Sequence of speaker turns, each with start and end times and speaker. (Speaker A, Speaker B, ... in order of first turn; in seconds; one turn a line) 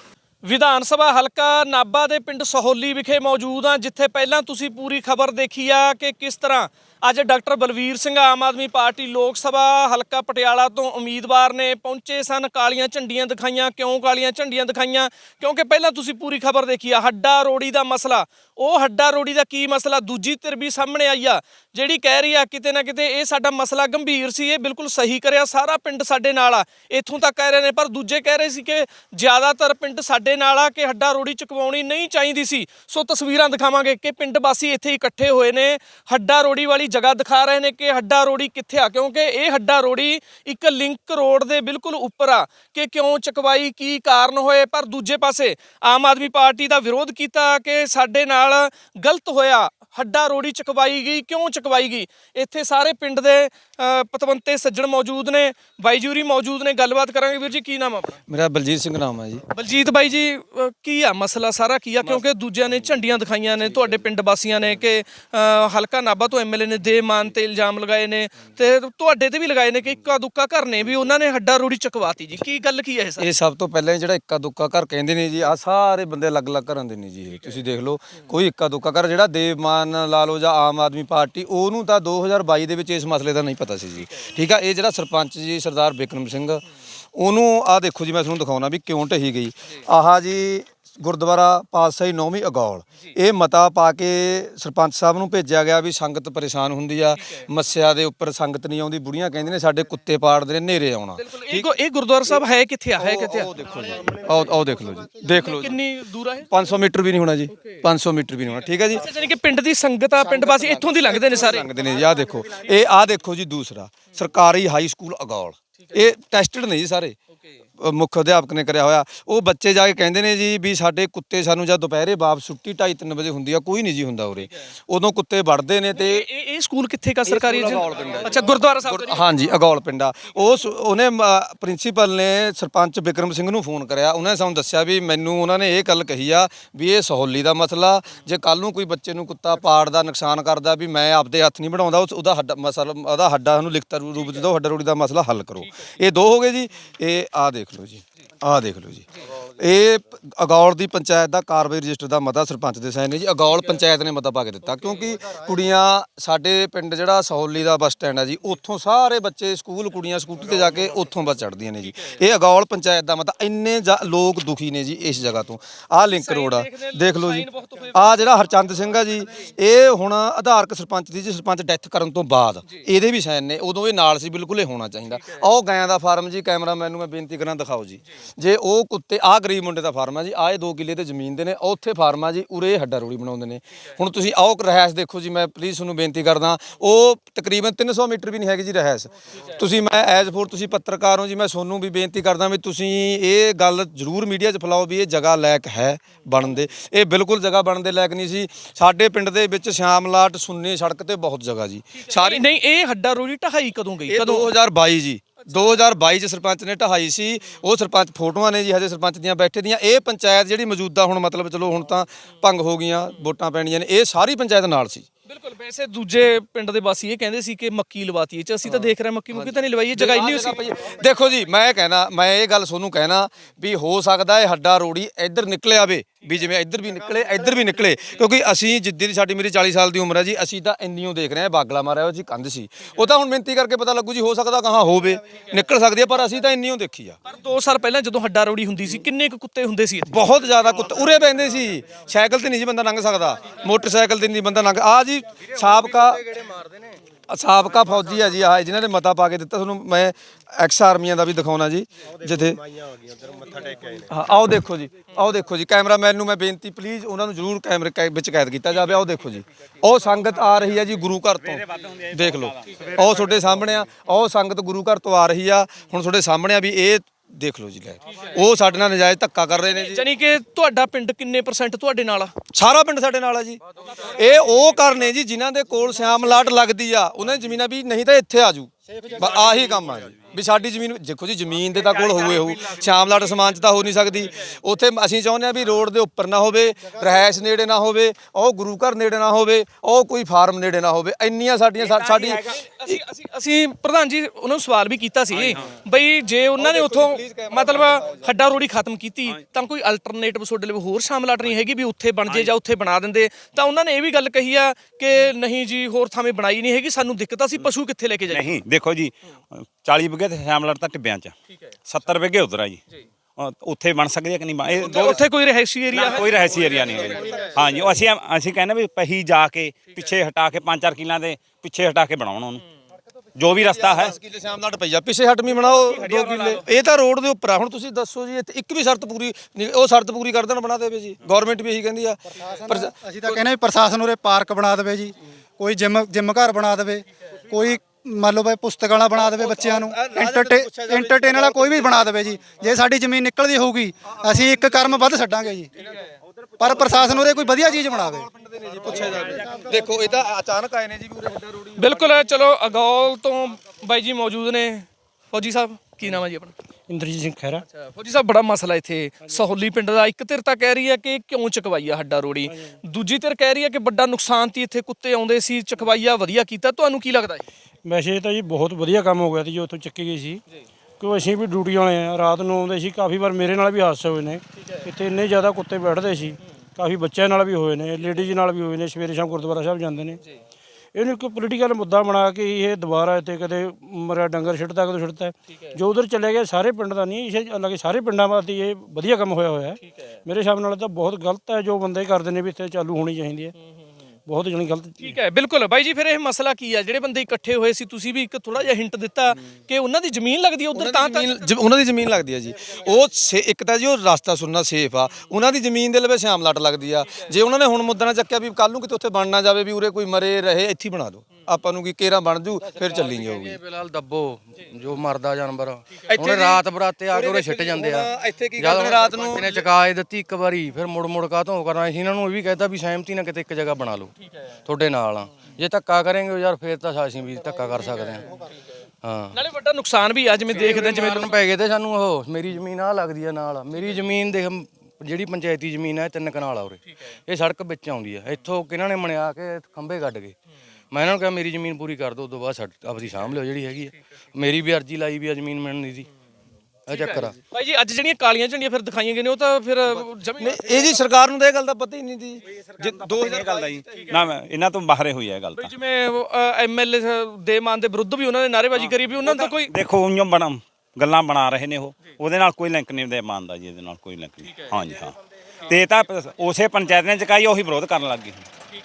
Speaker A: 0.4-58.2
Speaker B: 58.3-59.4
Speaker A: 59.5-73.3
Speaker B: 73.2-86.6
Speaker B: 87.2-101.7
Speaker A: 97.2-97.4
Speaker A: 101.2-103.5
Speaker B: 103.0-105.8
Speaker A: 105.2-106.5
Speaker B: 106.5-109.1
Speaker A: 107.5-107.8
Speaker A: 108.9-111.7
Speaker B: 110.2-117.2
Speaker B: 117.8-126.3
Speaker A: 125.9-129.3
Speaker B: 127.3-202.5
Speaker A: 166.2-168.5
Speaker A: 202.0-204.5
Speaker B: 204.1-215.1
Speaker A: 205.4-205.8
Speaker A: 215.3-220.6
Speaker B: 218.7-237.2
Speaker A: 237.2-240.2
Speaker B: 240.1-246.2
Speaker C: 245.7-247.0
Speaker B: 247.3-252.7
Speaker B: 254.1-270.1
Speaker D: 261.4-263.5
Speaker A: 269.8-272.3
Speaker B: 272.5-293.0
Speaker A: 292.4-308.6
Speaker B: 296.6-298.3
Speaker D: 308.3-311.3
Speaker D: 311.9-312.8
Speaker D: 313.4-315.3
Speaker A: 314.8-316.5
Speaker D: 315.9-322.6
Speaker B: 316.7-317.6
Speaker D: 323.4-324.1
Speaker B: 323.7-333.4
Speaker E: 332.3-345.7
Speaker B: 339.1-342.1
Speaker B: 344.1-344.9
Speaker B: 345.8-352.2
Speaker E: 346.6-348.3
Speaker E: 349.1-349.8
Speaker A: 351.8-356.5
Speaker F: 356.9-357.6
Speaker A: 357.7-367.4
Speaker F: 362.5-362.7
Speaker F: 367.8-370.4
Speaker F: 371.0-380.2
Speaker F: 380.9-393.5
Speaker F: 394.3-395.2
Speaker A: 395.0-401.4
Speaker B: 400.7-413.6
Speaker C: 412.7-424.1
Speaker B: 416.1-419.6
Speaker C: 424.7-428.3
Speaker C: 429.0-429.4
Speaker A: 429.3-431.3
Speaker C: 430.6-440.4
Speaker C: 440.9-446.1
Speaker C: 446.9-447.4
Speaker A: 446.9-450.9
Speaker B: 450.4-454.3
Speaker D: 453.0-455.7
Speaker A: 455.6-459.7
Speaker D: 458.8-468.5